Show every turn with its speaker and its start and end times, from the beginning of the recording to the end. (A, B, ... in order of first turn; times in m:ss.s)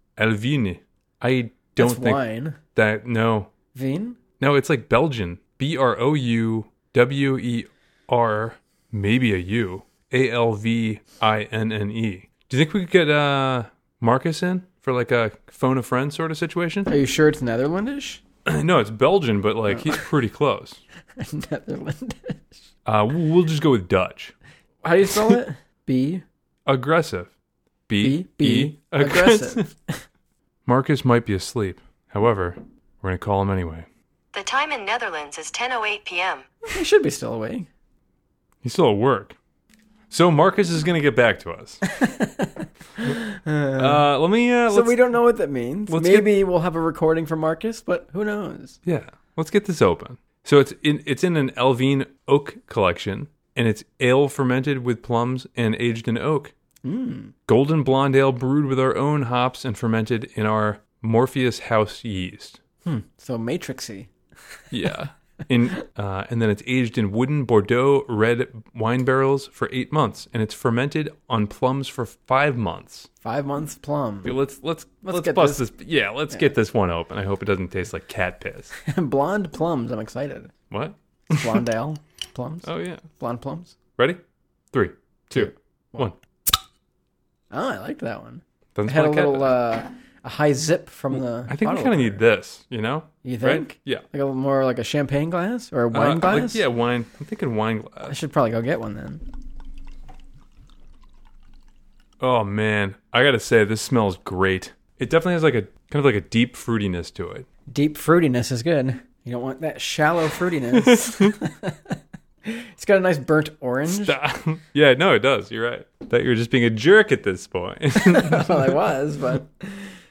0:00.2-0:02.2 A
0:01.8-0:02.6 B
0:02.7-0:03.5 A
0:03.7-0:04.2 B
0:04.4-0:16.9 A
0:16.9-0:18.2 B
0:18.4-0:20.8 A
0:19.7-0:20.0 B
0:21.2-0:22.5 B
0:22.8-0:24.3 A
0:24.8-0:26.2 B
0:26.6-0:27.3 A
0:27.9-0:29.7 A
0:28.0-0:30.0 B
0:30.6-0:33.9 A
0:34.3-0:36.4 C
0:36.7-0:37.7 B
0:38.6-0:39.4 A
0:40.1-0:41.8 A
0:41.8-0:44.1 B
0:43.8-0:45.0 A
0:44.7-0:48.8 B
0:45.9-0:46.3 A
0:48.8-0:56.5 A
0:56.8-0:57.3 B
0:57.5-1:02.6 A
1:02.8-1:04.1 B
1:04.7-1:13.1 A
1:13.2-1:14.4 B
1:14.2-1:18.7 A
1:15.0-1:15.6 B
1:18.8-1:20.5 B
1:20.7-1:21.6 A
1:21.3-1:23.8 B
1:22.6-1:23.0 A
1:24.7-1:26.1 A
1:25.3-1:26.1 B
1:27.5-1:32.2 B
1:28.7-1:29.6 A
1:31.5-1:34.0 A
1:33.2-1:36.6 B
1:35.9-1:38.1 A
1:38.1-1:39.2 B
1:42.2-1:47.4 A
1:47.7-1:54.2 B
1:50.7-1:51.3 A
1:53.9-1:58.8 A
1:58.0-1:59.9 B